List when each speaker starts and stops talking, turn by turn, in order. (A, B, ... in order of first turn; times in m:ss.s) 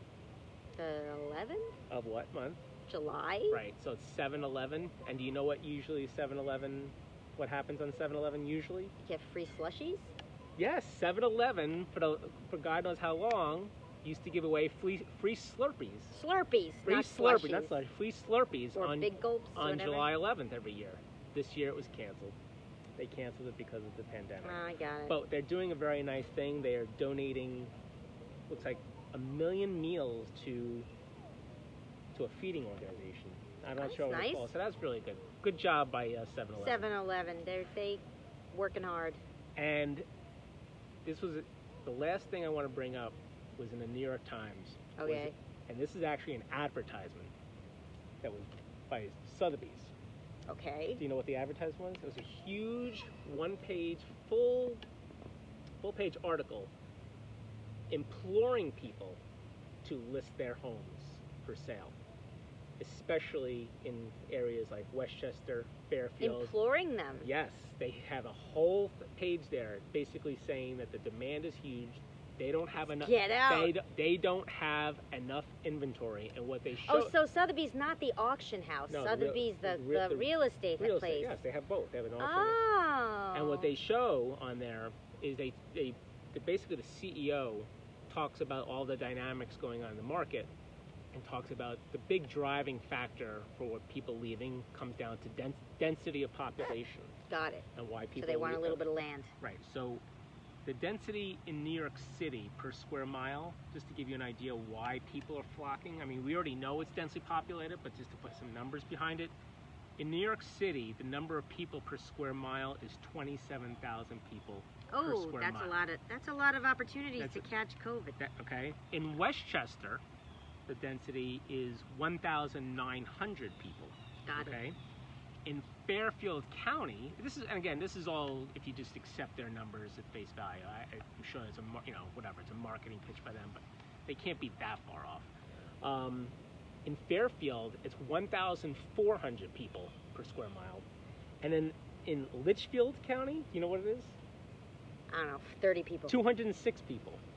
0:00.8-0:01.8 A
0:01.9-0:02.6 B
0:02.9-0:03.6 A
0:03.5-0:08.9 B
0:09.0-0:10.2 A
0:10.6-0:16.2 B
0:16.1-0:17.8 A
0:16.8-0:22.4 B
0:18.8-0:20.1 A
0:23.0-0:27.7 B
0:24.4-0:25.2 A
0:28.5-0:30.9 B
0:32.1-0:36.9 B
0:33.8-0:34.5 A
0:36.6-0:39.2 A
0:39.6-0:40.0 B
0:41.0-0:47.3 B
0:45.0-0:45.4 A
0:48.2-0:49.9 B
0:50.5-0:51.0 A
0:51.0-0:54.8 B
0:55.8-0:56.7 B
0:57.9-0:59.2 B
0:59.8-1:02.0 B
1:02.8-1:06.5 B
1:06.2-1:07.3 A
1:07.2-1:17.1 B
1:12.9-1:13.7 A
1:16.8-1:21.4 A
1:18.9-1:22.6 B
1:22.2-1:23.7 A
1:23.3-1:30.5 B
1:31.1-1:37.2 B
1:37.3-1:39.3 A
1:37.8-1:38.8 B
1:39.4-1:40.0 B
1:40.6-1:49.3 B
1:50.0-1:55.8 B
1:54.9-1:58.2 A
1:57.2-1:57.5 B
1:58.2-2:00.0 B
2:00.7-2:04.8 B
2:04.3-2:04.6 A
2:05.4-2:20.9 B
2:21.4-2:24.2 B
2:25.1-2:26.2 A
2:26.1-2:27.2 B